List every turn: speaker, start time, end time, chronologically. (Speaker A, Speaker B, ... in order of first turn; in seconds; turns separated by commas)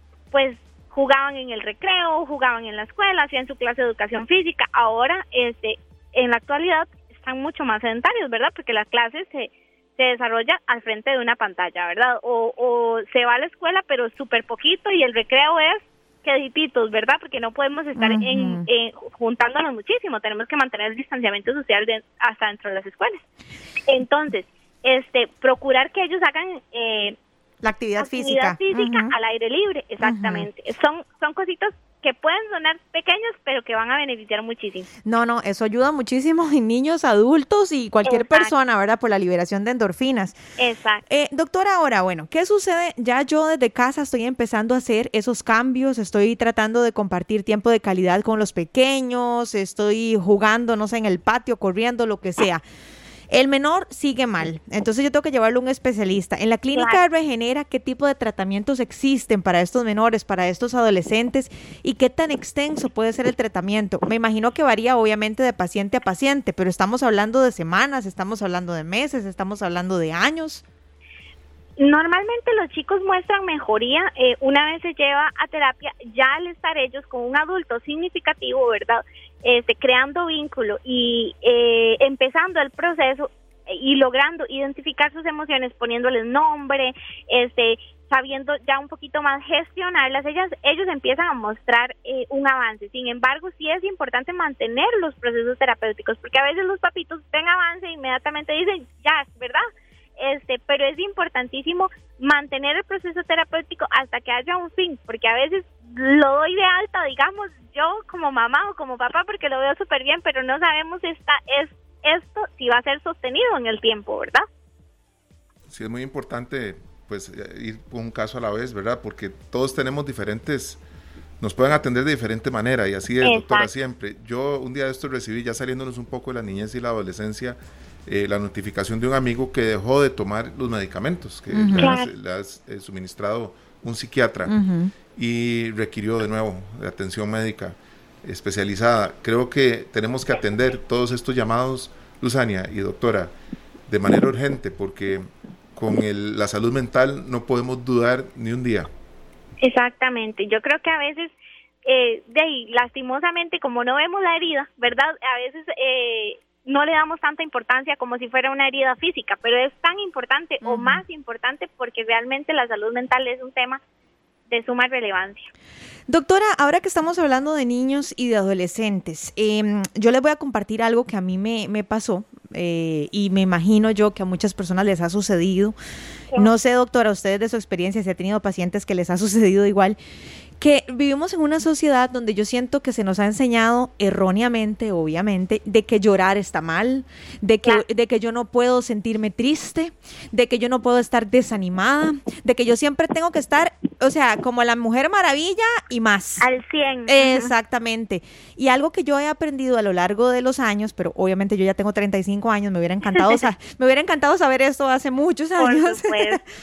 Speaker A: 0.3-23.2, Speaker B: 17.9-18.6, Speaker A: 23.9-27.1, Speaker B: 27.6-29.1, Speaker A: 28.0-34.9, Speaker B: 30.0-30.5, Speaker B: 35.1-40.4, Speaker A: 38.1-38.5, Speaker A: 40.6-41.0, Speaker B: 41.1-52.6, Speaker B: 53.3-70.6, Speaker A: 56.7-57.0, Speaker A: 71.8-99.6, Speaker A: 100.2-114.4, Speaker C: 115.7-120.8, Speaker C: 121.4-134.5, Speaker A: 123.2-123.7, Speaker B: 131.5-131.9, Speaker A: 131.7-132.1, Speaker B: 134.5-134.9, Speaker C: 135.1-143.3, Speaker C: 143.9-148.9, Speaker A: 149.6-151.3, Speaker A: 151.8-163.8, Speaker B: 160.6-161.0, Speaker A: 164.5-165.5, Speaker B: 166.1-175.7, Speaker B: 176.3-180.0, Speaker B: 180.6-196.4, Speaker A: 196.4-197.5, Speaker B: 197.1-206.4, Speaker A: 205.6-206.4